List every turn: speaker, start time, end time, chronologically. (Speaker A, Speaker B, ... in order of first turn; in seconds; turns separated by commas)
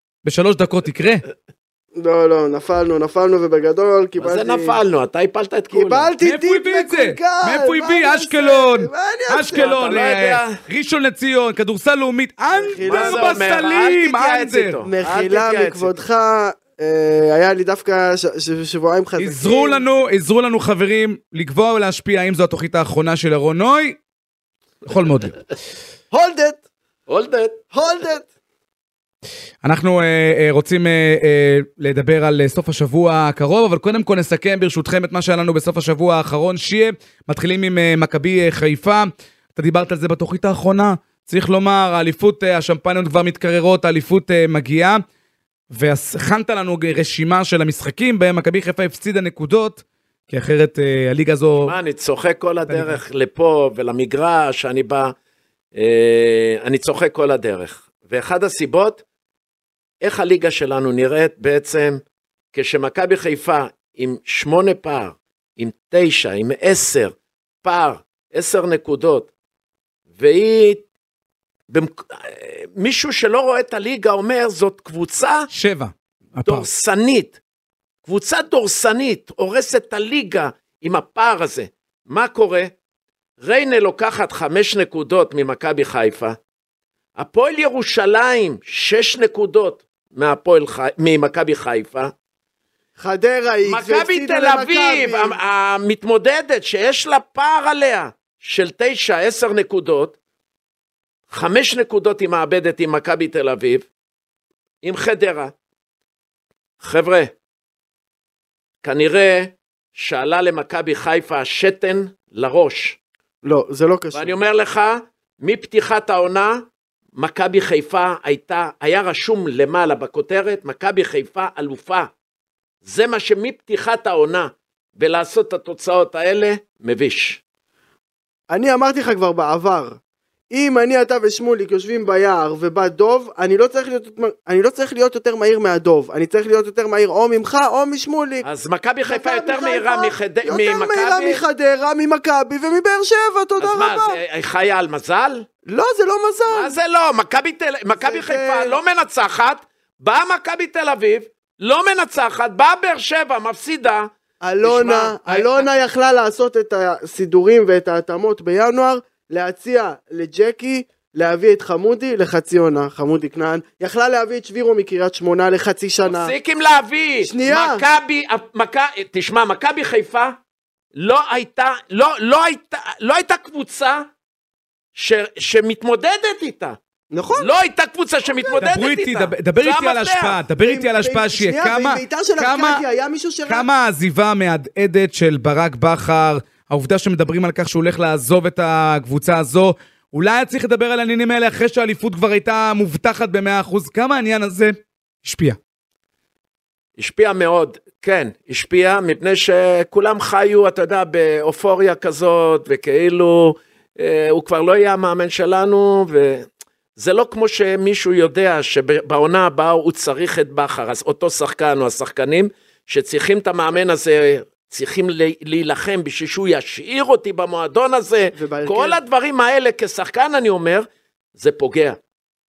Speaker A: 0.2-1.2, Speaker B: 1.9-4.8, Speaker C: 4.2-6.1, Speaker B: 5.7-9.7, Speaker A: 6.2-14.8, Speaker C: 9.5-10.6, Speaker B: 12.5-13.4, Speaker C: 12.8-15.9, Speaker B: 14.8-19.8, Speaker A: 19.2-24.0, Speaker A: 24.9-25.3, Speaker B: 26.1-26.6, Speaker C: 27.1-27.6, Speaker B: 27.7-28.3, Speaker A: 29.6-45.0, Speaker A: 45.7-51.7, Speaker C: 51.6-55.1, Speaker A: 52.7-53.0, Speaker C: 55.8-59.0, Speaker C: 60.0-62.0, Speaker C: 62.5-69.3, Speaker C: 70.2-70.8, Speaker C: 71.7-75.5, Speaker A: 75.5-76.7, Speaker C: 76.5-77.4, Speaker C: 78.0-82.7, Speaker C: 83.4-86.4, Speaker C: 87.2-92.1, Speaker B: 93.0-95.3, Speaker C: 93.6-100.1, Speaker C: 101.3-103.8, Speaker C: 104.8-105.5, Speaker C: 106.8-107.3, Speaker C: 108.8-113.0, Speaker B: 113.4-114.3, Speaker C: 114.1-116.6, Speaker C: 117.2-122.1, Speaker C: 122.8-127.4, Speaker B: 128.5-130.0, Speaker B: 130.5-138.4, Speaker C: 138.4-141.4, Speaker B: 139.1-144.2, Speaker C: 143.6-145.5, Speaker B: 145.7-146.7, Speaker C: 146.5-154.1, Speaker B: 148.0-148.8, Speaker B: 154.4-166.3, Speaker C: 154.6-155.7, Speaker C: 166.0-170.3, Speaker B: 167.2-167.8, Speaker C: 170.9-174.1, Speaker C: 174.9-176.8, Speaker B: 177.1-177.5, Speaker C: 177.4-180.4, Speaker B: 178.3-178.6, Speaker A: 178.6-182.8, Speaker B: 180.6-183.7, Speaker A: 183.5-195.6, Speaker C: 197.0-206.4, Speaker C: 207.0-222.0, Speaker B: 218.3-219.0